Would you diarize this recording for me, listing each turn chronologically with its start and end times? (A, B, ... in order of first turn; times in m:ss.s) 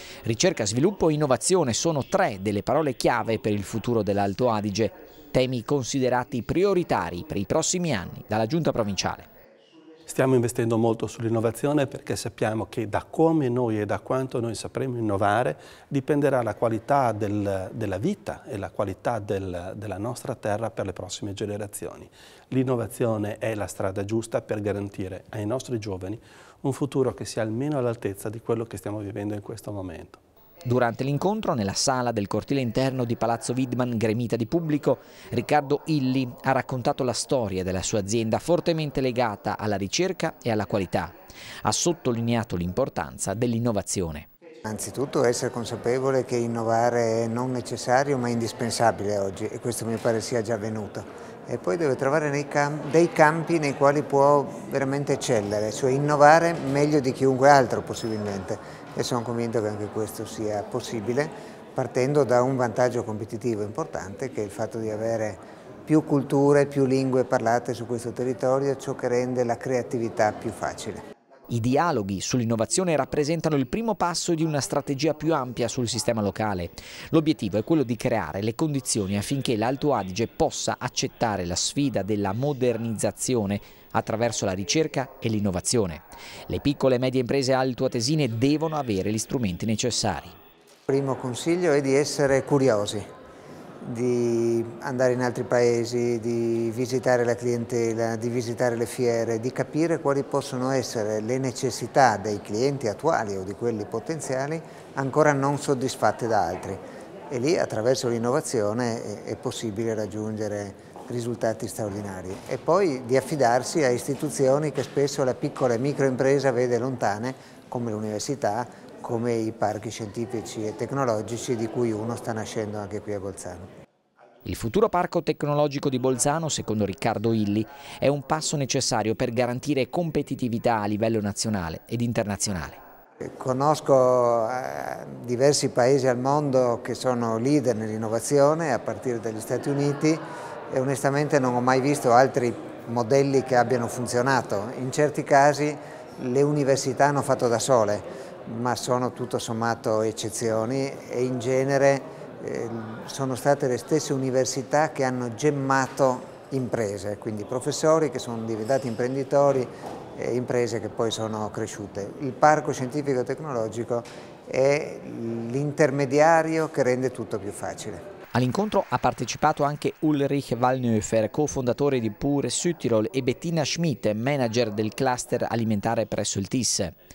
0:00.2-0:09.3 A
0:10.1-0:30.2 B
0:30.6-0:44.3 A
0:44.6-1:11.0 C
1:11.5-1:30.4 A
1:30.9-1:33.1 C
1:33.8-2:03.7 C
2:04.4-2:12.8 A
2:13.2-2:48.0 C
2:48.3-2:56.9 A